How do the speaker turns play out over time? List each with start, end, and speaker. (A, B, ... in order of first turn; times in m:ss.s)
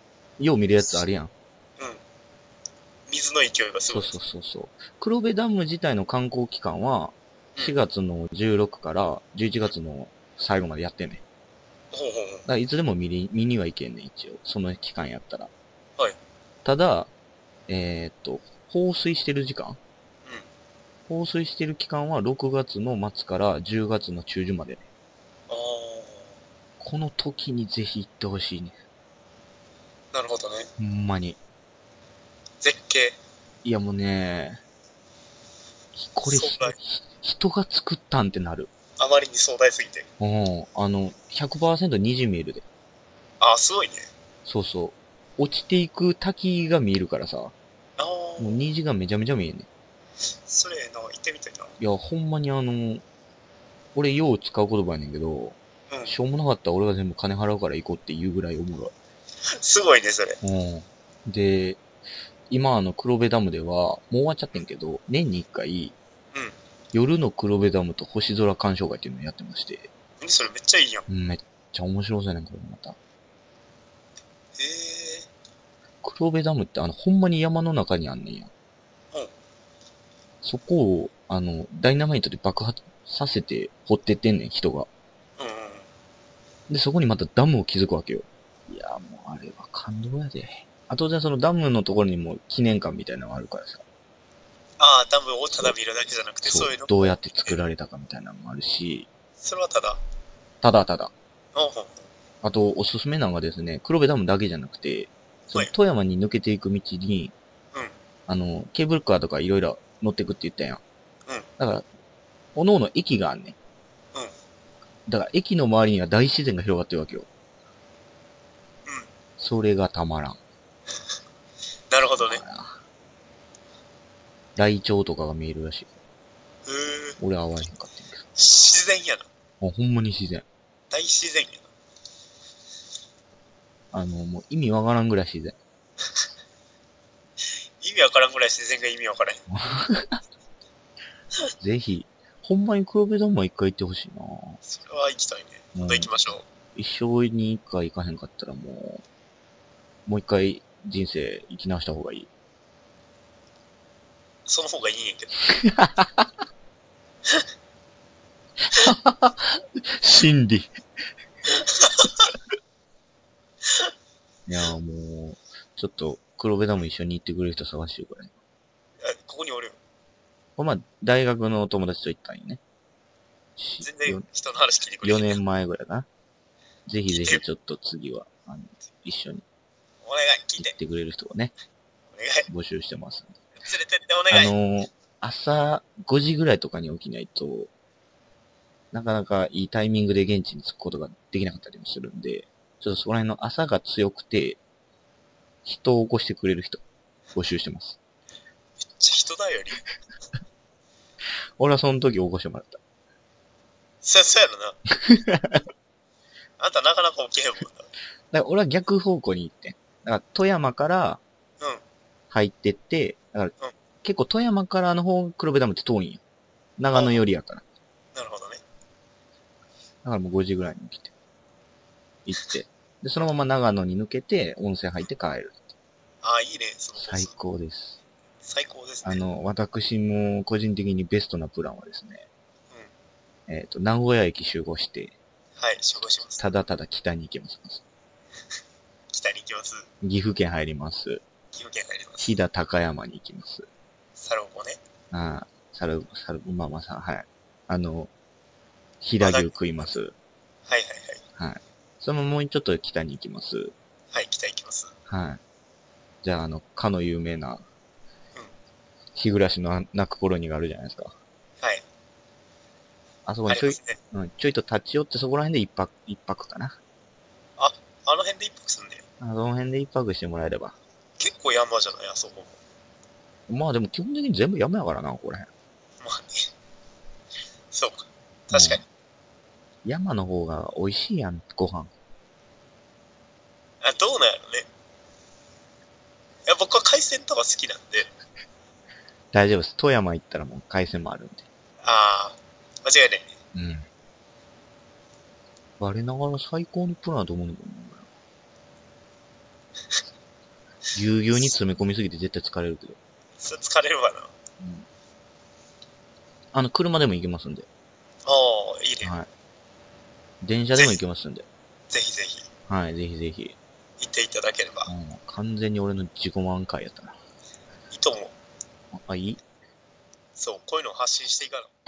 0:00.4-0:01.3 A
0:03.1-0:04.1 B
0:03.9-0:11.2 A
0:11.9-0:12.4 B
0:12.5-0:15.5 A
0:16.6-0:17.1 A
0:17.7-0:19.8 A
0:21.1-0:24.8 A
0:25.5-0:26.3 B
0:26.8-0:28.8 A
0:30.1-0:30.7 B
0:30.8-0:31.4 A
0:32.6-0:33.2 B
0:33.6-0:34.6 A
0:36.0-0:38.7 A
0:36.2-0:36.8 B
0:39.0-0:40.1 B
0:40.2-0:42.6 A
0:43.4-0:44.1 B
0:44.4-0:47.5 A
0:48.0-0:48.6 B
0:48.4-0:49.7 A
0:50.4-0:51.7 B
0:51.8-0:53.0 A
0:53.9-0:58.9 A
0:55.9-0:56.1 B
0:59.5-1:00.4 B
1:00.4-1:01.8 A
1:02.5-1:06.0 A
1:06.9-1:09.9 A
1:10.2-1:11.1 B
1:11.1-1:13.0 A
1:14.6-1:15.3 B
1:16.0-1:18.5 A
1:20.4-1:24.9 A
1:25.4-1:25.9 B
1:26.7-1:33.8 A
1:34.8-1:37.6 B
1:36.4-1:39.1 A
1:39.4-1:40.0 B
1:40.6-1:41.1 A
1:41.5-1:42.1 B
1:42.4-1:47.3 A
1:48.3-1:50.8 A
1:51.6-1:51.8 A
1:52.6-1:53.6 A
1:55.1-1:57.3 A
1:59.4-2:00.4 A
2:01.9-2:02.4 B
2:02.1-2:02.8 A
2:04.6-2:05.9 A
2:06.6-2:07.2 B
2:07.2-2:08.2 A
2:08.4-2:09.2 B
2:09.6-2:10.4 A
2:10.9-2:11.7 B
2:13.9-2:15.6 A
2:17.8-2:19.4 B
2:19.5-2:20.2 A
2:21.6-2:24.6 A
2:24.6-2:26.4 B
2:25.7-2:26.1 A
2:26.7-2:29.0 A
2:30.0-2:32.3 A
2:34.5-2:35.4 B
2:35.6-2:36.2 A
2:38.6-2:40.7 A
2:41.5-2:42.3 B
2:44.5-2:48.3 A
2:49.0-2:49.8 B
2:50.6-2:52.6 A
2:53.6-2:54.2 A
2:53.8-2:55.4 B
2:55.0-2:56.1 A
2:56.9-2:59.4 A
2:57.1-2:57.4 B
3:00.0-3:00.7 B
3:00.6-3:01.5 A
3:02.1-3:02.5 B
3:02.5-3:03.4 A
3:03.6-3:04.5 B
3:04.3-3:07.7 A
3:08.9-3:14.6 A
3:15.6-3:16.8 A
3:17.3-3:18.0 A
3:18.8-3:19.8 B
3:21.6-3:22.8 A
3:24.0-3:24.8 B
3:25.0-3:25.6 A
3:26.6-3:27.9 B
3:28.3-3:31.2 A
3:32.3-3:36.2 A
3:36.8-3:37.6 A
3:36.9-3:37.2 B
3:38.1-3:38.6 B
3:40.0-3:41.1 A
3:42.2-3:45.7 A
3:46.2-3:47.3 B
3:47.0-3:48.0 A
3:48.4-3:49.2 B
3:49.0-3:52.2 A
3:53.5-3:55.2 A
3:55.6-3:56.5 B
3:56.3-3:57.8 A
3:59.1-3:59.9 B
4:00.0-4:01.2 A
4:01.5-4:02.3 B
4:02.2-4:03.7 A
4:04.2-4:04.8 B
4:05.1-4:08.1 A
4:09.0-4:10.1 A
4:09.2-4:09.9 B
4:10.7-4:11.2 B
4:11.4-4:13.7 A
4:14.1-4:14.9 B
4:15.1-4:15.4 A
4:16.2-4:17.6 A
4:19.1-4:21.1 A
4:23.2-4:26.8 A
4:23.5-4:24.0 B
4:27.6-4:29.0 B
4:29.2-4:30.8 A
4:31.2-4:32.6 B
4:33.5-4:35.5 A
4:36.0-4:36.5 B
4:37.7-4:38.8 B
4:38.5-4:38.8 A
4:39.8-4:41.9 A
4:43.8-4:44.7 B
4:46.4-4:48.1 B
4:49.3-4:51.4 A
4:51.8-4:53.3 B
4:53.5-4:53.9 A
4:55.8-4:58.1 A
5:00.9-5:03.0 A
5:03.4-5:04.3 B
5:04.6-5:04.8 A
5:06.5-5:07.7 A
5:08.2-5:09.1 B
5:09.0-5:09.3 A
5:10.4-5:11.5 A
5:11.9-5:12.5 B
5:12.7-5:13.6 A
5:14.0-5:14.9 B
5:14.9-5:17.2 A
5:17.9-5:18.3 B
5:18.9-5:19.4 A
5:20.4-5:21.7 B